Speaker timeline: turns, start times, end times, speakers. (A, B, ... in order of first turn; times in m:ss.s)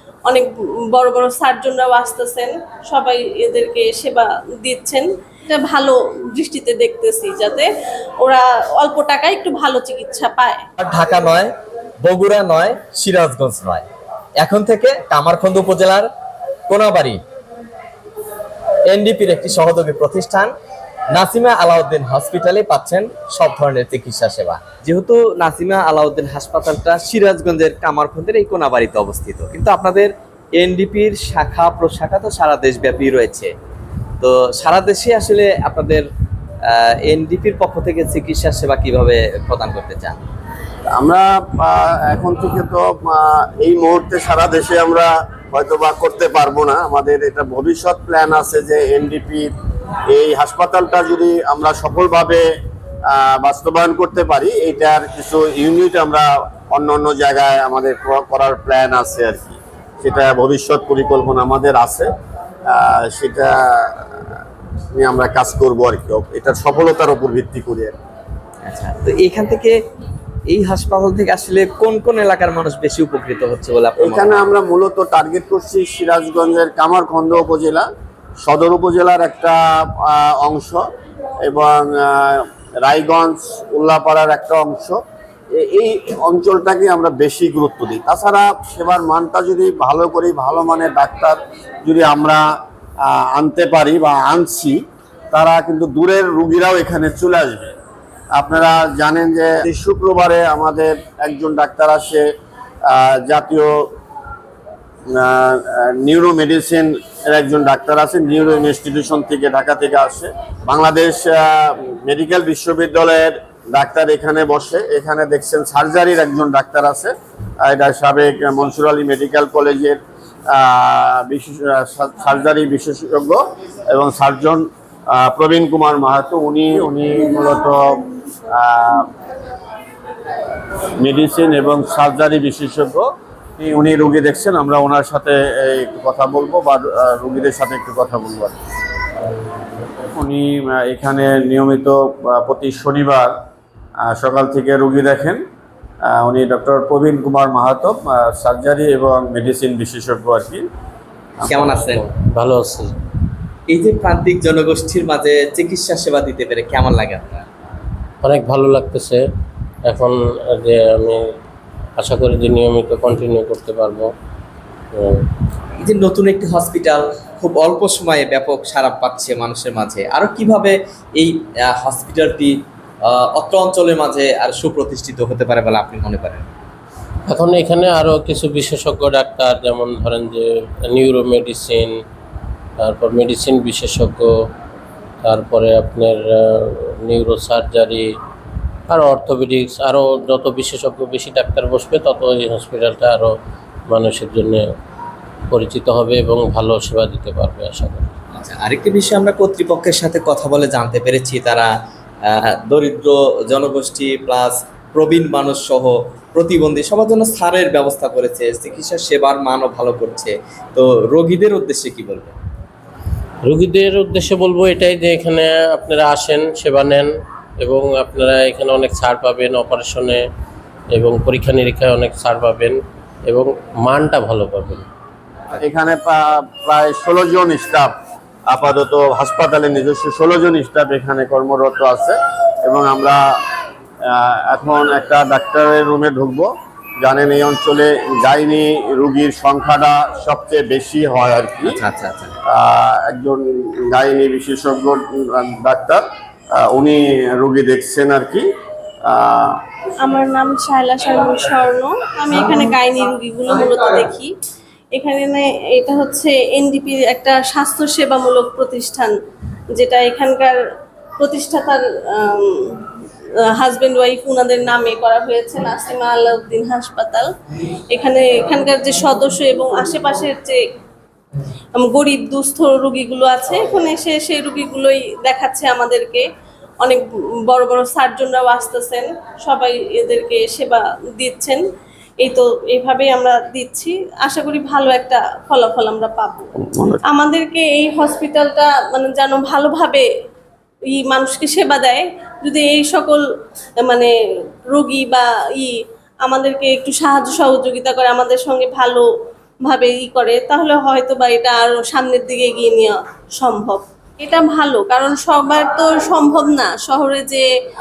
0:00.3-0:07.7 A
0:08.2-0:10.6 A
0:10.8-0:11.5 B
0:12.0-0:13.8 B
0:14.4-0:16.1 B
0:16.7-0:17.2 B
0:18.9-0:20.5 B
0:21.1-0:33.5 B
0:34.2-0:36.1 B
0:36.7-0:40.2 B
0:41.0-0:49.5 C
0:50.1-0:52.5 C
0:53.1-1:02.1 C
1:02.7-1:04.1 C
1:04.9-1:07.9 C
1:08.6-1:09.8 B
1:10.5-1:14.5 B
1:14.0-1:17.9 C
1:18.4-1:20.8 C
1:21.5-1:25.0 C
1:25.6-1:32.4 C
1:33.1-1:34.8 C
1:35.3-1:37.7 C
1:38.4-1:42.2 C
1:42.9-1:43.9 C
1:45.1-1:57.1 C
1:57.6-2:00.0 C
2:00.5-2:09.1 C
2:11.0-2:13.1 C
2:13.6-2:18.5 C
2:20.2-2:23.4 C
2:24.1-2:25.4 C
2:26.1-2:30.7 C
2:31.5-2:32.0 B
2:31.7-2:32.9 D
2:33.7-2:37.4 B
2:38.2-2:39.2 D
2:39.9-2:41.2 D
2:42.0-2:44.1 D
2:44.9-2:45.2 D
2:45.8-2:52.6 B
2:53.1-2:56.5 B
2:57.3-3:02.0 D
3:02.8-3:04.3 D
3:05.2-3:08.1 D
3:08.9-3:13.3 D
3:13.9-3:14.6 D
3:15.5-3:18.1 D
3:18.4-3:21.7 B
3:22.2-3:32.3 B
3:33.4-3:40.3 D
3:40.9-3:44.9 D
3:45.6-3:47.9 C
3:48.5-3:53.2 C
3:54.1-3:56.5 C
3:57.0-4:01.8 C
4:01.6-4:02.4 B
4:02.5-4:06.0 C
4:06.6-4:08.5 C
4:09.1-4:09.6 C
4:10.0-4:14.3 A
4:14.9-4:19.2 A
4:19.8-4:20.6 A
4:21.2-4:22.9 A
4:23.6-4:27.3 A
4:27.9-4:30.6 A
4:31.8-4:36.3 A
4:36.8-4:41.6 A
4:42.2-4:46.5 A
4:46.6-4:47.0 C
4:47.0-4:50.1 A
4:50.9-4:53.2 A
4:53.8-4:54.1 A
4:54.7-4:59.1 A
4:59.6-5:07.5 A